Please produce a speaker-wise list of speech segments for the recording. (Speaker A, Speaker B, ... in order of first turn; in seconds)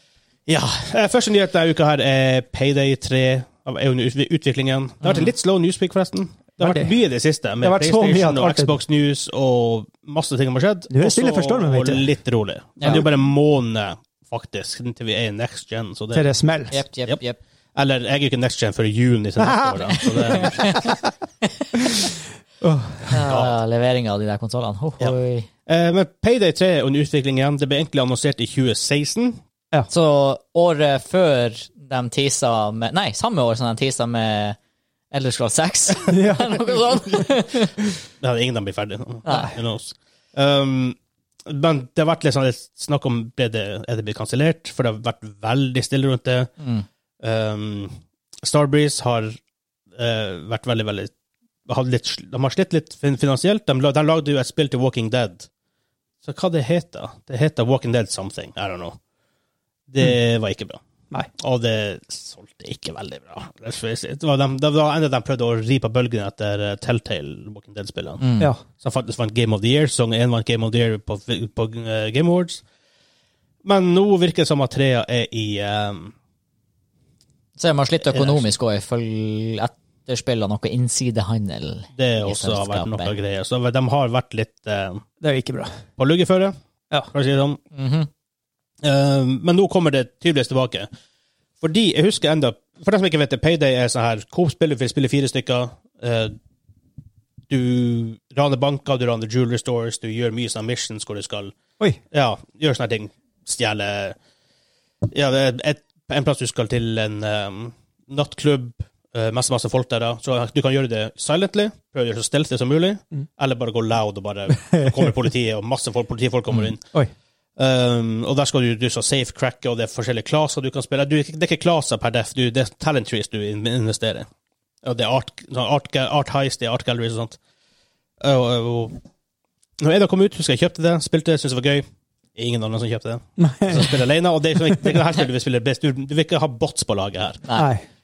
Speaker A: 0.5-16.3, 17.8-20.9, 23.3-23.5, 25.0-29.4, 38.2-46.5, 47.2-49.4, 50.0-51.1, 51.7-55.5, 56.2-59.0, 59.9-60.8, 61.4-68.2, 68.8-72.6, 73.6-76.1, 78.0-78.5, 82.0-85.0, 86.0-86.5, 87.1-87.6, 88.8-90.9, 91.6-96.3, 97.5-101.5, 102.1-104.2, 105.1-116.8, 117.6-124.3, 124.8-127.4, 128.2-129.0, 129.8-137.4
Speaker B: 5.0-5.3, 12.8-13.1, 16.7-17.4, 19.9-20.9, 23.1-25.5, 29.9-34.6, 35.1-37.7, 39.2-39.5, 46.6-46.9, 68.2-68.5, 77.6-83.2, 87.7-88.1
Speaker C: 6.6-6.9, 7.6-8.8, 10.9-12.1, 12.8-13.1, 16.1-16.8, 19.4-21.0, 21.8-22.1, 22.6-23.2, 36.1-36.8, 85.2-85.8, 114.7-115.0, 133.4-134.0, 137.5-137.9